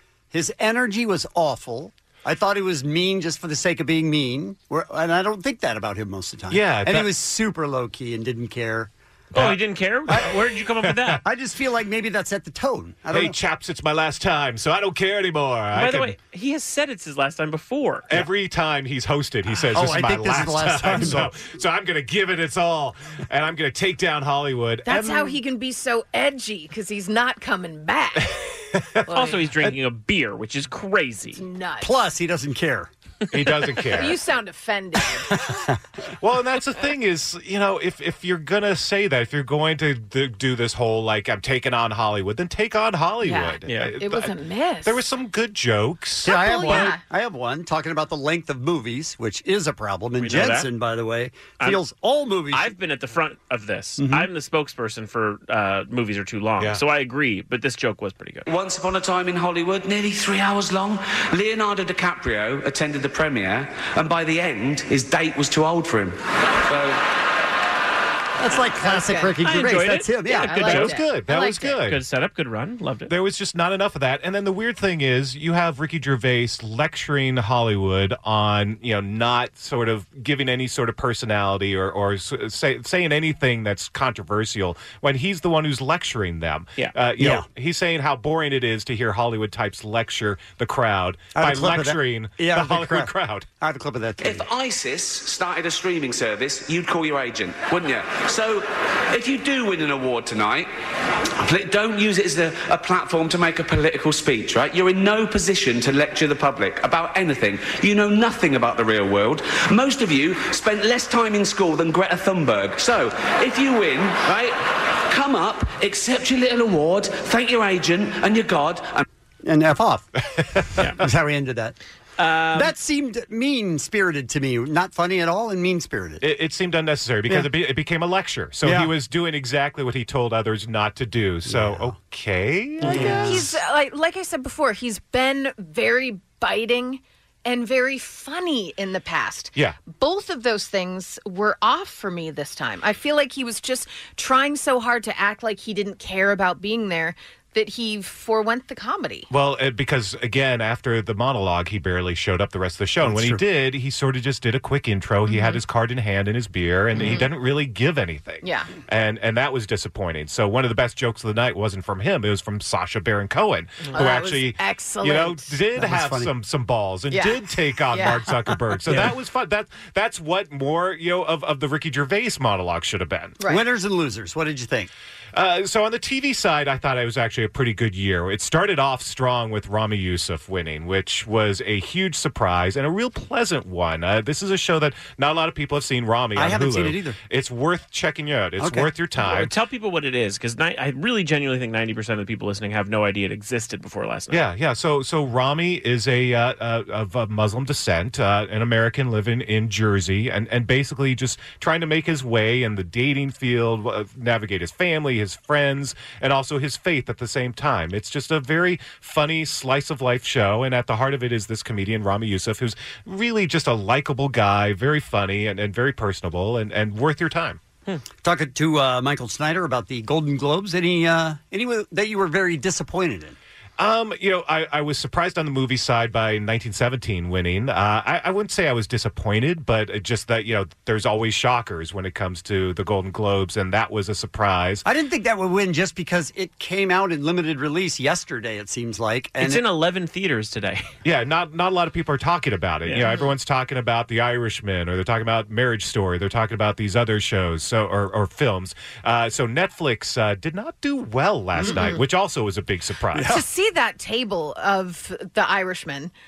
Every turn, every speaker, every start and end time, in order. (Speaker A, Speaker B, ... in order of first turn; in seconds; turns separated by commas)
Speaker A: 0.3-9.5, Speaker B: 6.5-7.1, Speaker C: 9.3-11.2, Speaker A: 11.2-13.3, Speaker B: 13.1-16.1, Speaker C: 15.7-18.1, Speaker B: 18.1-25.4, Speaker A: 19.7-21.3, Speaker D: 24.9-28.5, Speaker B: 28.7-29.7, Speaker D: 29.1-29.4, Speaker C: 29.1-31.4, Speaker D: 31.4-31.9, Speaker A: 31.8-32.9, Speaker B: 33.3-34.2, Speaker D: 33.9-35.4, Speaker A: 35.5-35.8, Speaker B: 36.2-46.9, Speaker D: 43.2-45.0, Speaker C: 43.6-43.9, Speaker D: 46.2-47.0, Speaker A: 46.2-52.7, Speaker C: 50.2-50.7, Speaker C: 52.5-58.4, Speaker A: 54.0-54.3, Speaker E: 58.5-67.0, Speaker A: 68.4-70.8, Speaker D: 68.8-69.3, Speaker C: 69.4-71.0, Speaker D: 70.3-71.8, Speaker B: 70.7-72.0, Speaker C: 71.8-73.1, Speaker B: 73.1-93.5, Speaker A: 87.2-87.5, Speaker A: 91.3-94.4, Speaker E: 94.2-100.7, Speaker E: 101.4-119.0, Speaker A: 119.4-120.1, Speaker A: 121.0-121.8, Speaker C: 122.2-122.7, Speaker A: 122.5-126.2, Speaker B: 126.2-133.6, Speaker A: 128.6-128.9, Speaker A: 131.4-131.9, Speaker D: 132.8-149.3, Speaker A: 132.9-133.4, Speaker B: 149.3-173.4, Speaker A: 153.0-153.4, Speaker D: 155.2-155.6, Speaker D: 156.9-157.3, Speaker D: 158.4-158.7, Speaker D: 163.9-165.6, Speaker A: 165.8-166.3, Speaker D: 167.1-168.3, Speaker A: 168.9-169.1, Speaker A: 173.5-174.9, Speaker B: 175.3-189.5, Speaker A: 186.3-187.2, Speaker A: 188.6-188.9, Speaker C: 189.2-194.4, Speaker B: 194.3-217.6, Speaker A: 218.2-223.4, Speaker B: 223.8-234.8, Speaker A: 234.8-239.6, Speaker C: 239.4-240.9, Speaker B: 241.0-253.4, Speaker D: 251.6-252.0, Speaker A: 253.1-253.4, Speaker D: 253.2-256.1